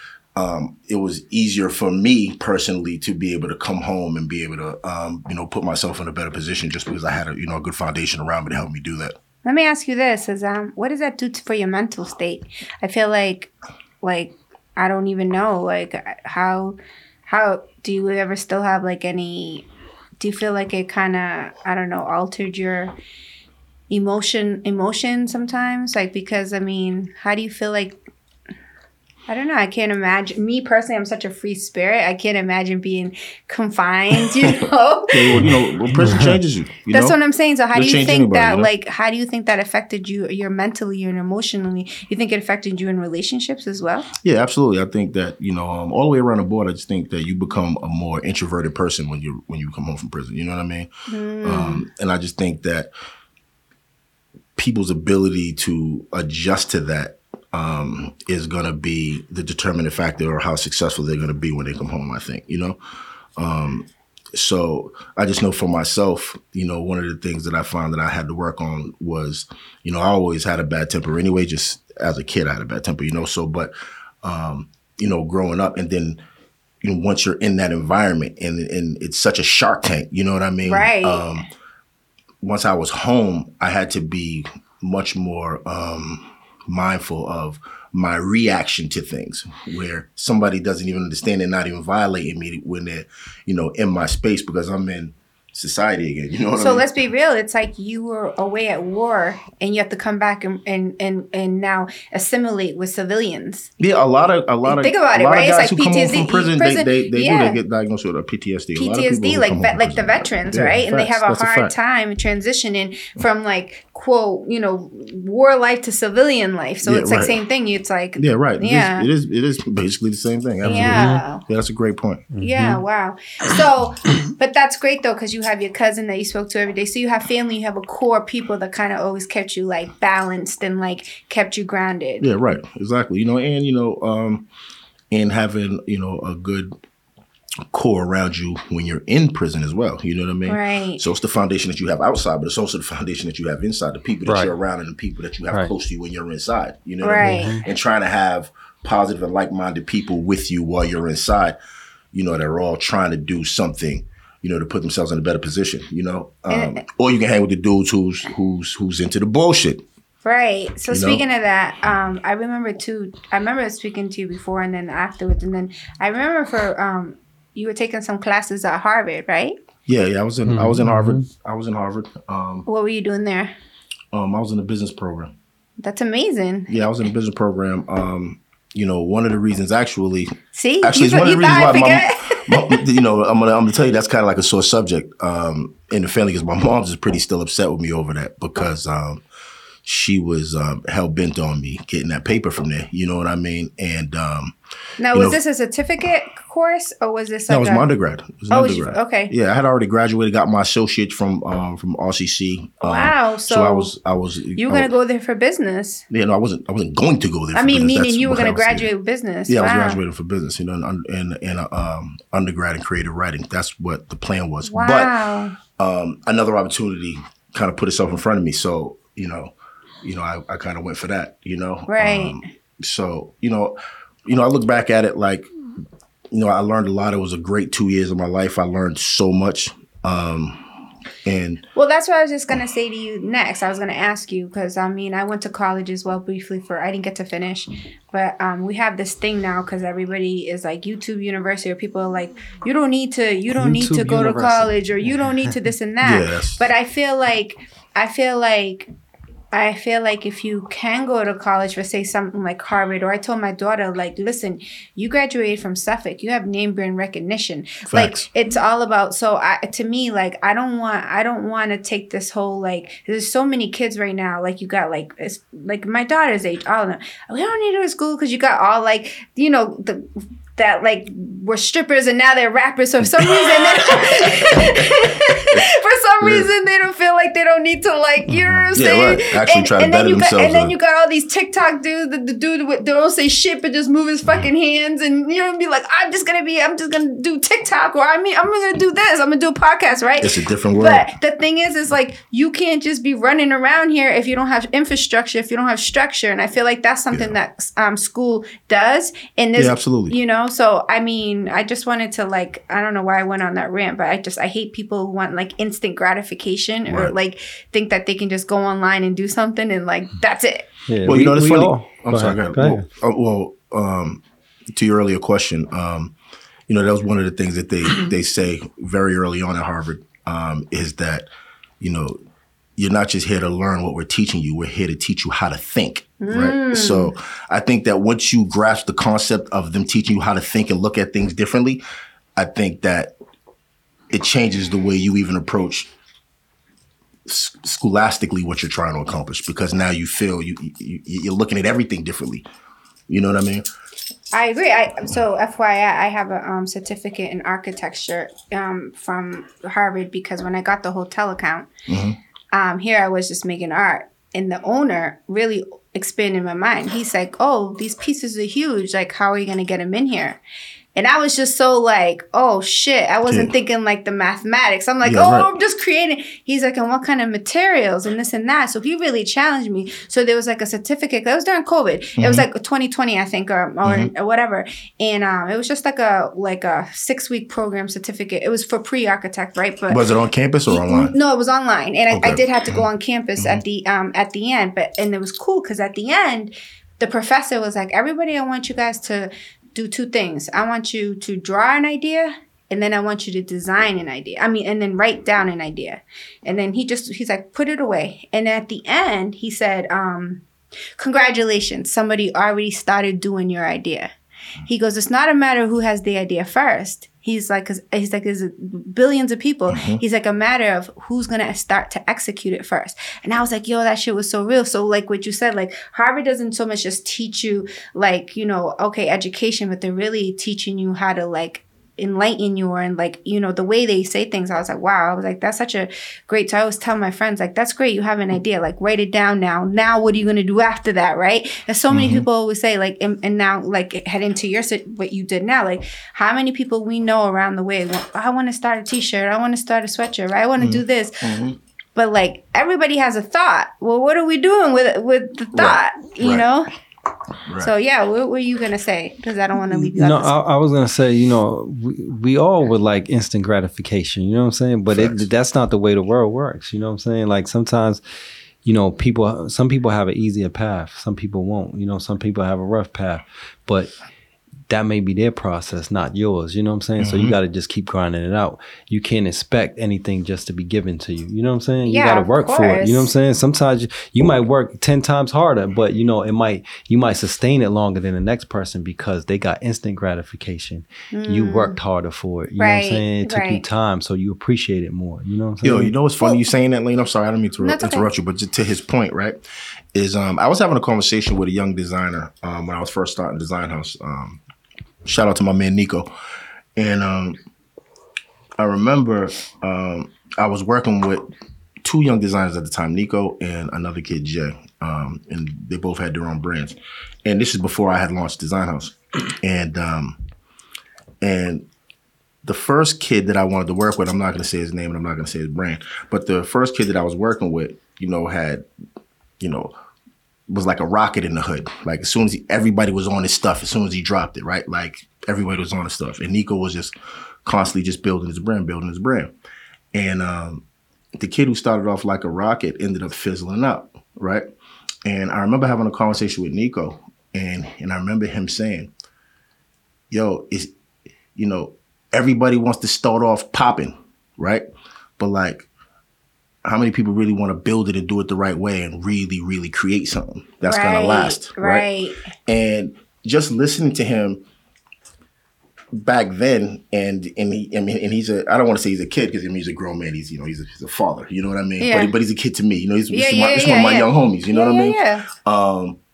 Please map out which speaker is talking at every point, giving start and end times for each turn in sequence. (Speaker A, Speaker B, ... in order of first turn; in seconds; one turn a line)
Speaker A: 0.3-9.2
Speaker B: 9.4-16.8
Speaker B: 17.3-19.6
Speaker B: 20.2-22.9
Speaker B: 23.9-28.0
Speaker B: 29.3-35.6
Speaker A: 35.1-37.1
Speaker C: 35.9-36.4
Speaker B: 36.9-44.1
Speaker A: 37.7-38.7
Speaker A: 44.2-50.9
Speaker B: 51.1-51.9
Speaker A: 51.4-52.9
Speaker A: 54.5-62.8
Speaker A: 63.4-76.2
Speaker A: 76.8-81.4
Speaker B: 80.6-81.4
Speaker A: 82.4-96.9
Speaker B: 96.6-103.7
Speaker A: 103.8-111.7
Speaker B: 104.7-107.6
Speaker B: 108.8-119.1
Speaker A: 116.8-117.4
Speaker A: 118.2-122.3
Speaker C: 120.6-121.2
Speaker B: 120.6-121.4
Speaker C: 122.4-122.8
Speaker B: 122.4-132.3
Speaker A: 132.2-134.5
Speaker A: 135.1-136.7
Speaker A: 137.7-151.6
Speaker B: 140.5-141.0
Speaker C: 144.2-144.5
Speaker B: 147.0-147.6
Speaker C: 147.2-147.6
Speaker A: 152.1-159.8
Speaker B: 156.5-156.8
Speaker B: 160.2-169.6
Speaker A: 160.9-161.2
Speaker A: 169.9-172.7
Speaker C: 170.5-171.2
Speaker B: 172.7-173.5
Speaker A: 174.1-175.3
Speaker B: 175.8-176.7
Speaker A: 176.7-189.2
Speaker B: 180.5-182.8
Speaker A: 189.8-194.5
Speaker B: 195.0-197.8
Speaker A: 195.1-195.4
Speaker A: 197.5-204.9
Speaker B: 198.5-199.3
Speaker B: 202.8-203.9
Speaker B: 204.6-206.0
Speaker A: 206.1-208.9
Speaker B: 207.5-210.0
Speaker A: 209.5-215.1
Speaker B: 214.6-215.6
Speaker A: 215.8-225.4
Speaker B: 221.9-222.4
Speaker A: 226.3-230.6
Speaker A: 231.2-231.6
Speaker B: 231.7-248.9
Speaker C: 243.5-244.7
Speaker A: 246.0-246.7
Speaker B: 249.5-310.7
Speaker A: 257.9-258.3
Speaker A: 273.2-275.7
Speaker A: 276.2-276.5
Speaker A: 278.7-280.7
Speaker A: 290.2-291.1
Speaker A: 299.6-300.2
Speaker A: 306.9-307.1
Speaker C: 310.9-312.9
Speaker A: 311.0-314.2
Speaker A: 314.7-316.1
Speaker A: 316.7-321.2
Speaker A: 321.8-322.1
Speaker A: 322.8-331.8
Speaker B: 326.2-327.1
Speaker A: 332.4-333.1
Speaker A: 334.1-335.9
Speaker A: 337.2-342.4
Speaker A: 343.1-343.6
Speaker B: 344.3-351.7
Speaker A: 351.9-352.2
Speaker B: 352.5-360.4
Speaker B: 360.9-380.0
Speaker A: 363.3-363.5
Speaker A: 365.0-365.5
Speaker A: 372.2-372.4
Speaker A: 373.8-374.1
Speaker A: 379.9-381.1
Speaker B: 380.7-400.4
Speaker A: 382.1-383.6
Speaker B: 401.0-404.1
Speaker B: 404.7-441.4
Speaker A: 409.7-410.0
Speaker A: 431.9-432.2
Speaker A: 440.6-441.6
Speaker B: 441.9-446.7
Speaker A: 445.5-446.5
Speaker A: 447.5-447.7
Speaker B: 447.6-450.3
Speaker C: 449.6-458.0
Speaker A: 454.9-455.2
Speaker C: 458.6-463.9
Speaker C: 464.7-485.9
Speaker A: 467.0-467.3
Speaker B: 471.9-473.1
Speaker B: 481.1-481.8
Speaker B: 482.6-483.6
Speaker A: 485.6-489.4
Speaker B: 487.6-488.1
Speaker A: 489.9-494.4
Speaker A: 495.0-496.1
Speaker A: 496.8-497.4
Speaker A: 498.6-501.2
Speaker A: 501.8-510.2
Speaker A: 511.2-511.6
Speaker A: 512.4-518.6
Speaker A: 519.4-519.7
Speaker A: 520.5-526.9
Speaker A: 527.4-529.3
Speaker A: 529.9-530.6
Speaker A: 531.1-534.5
Speaker A: 535.0-538.9
Speaker A: 540.1-540.7
Speaker A: 541.4-544.6
Speaker A: 545.2-545.7
Speaker A: 546.6-551.9
Speaker B: 550.7-552.2
Speaker A: 552.5-554.4
Speaker A: 555.9-566.0
Speaker B: 561.8-562.1
Speaker B: 563.1-565.3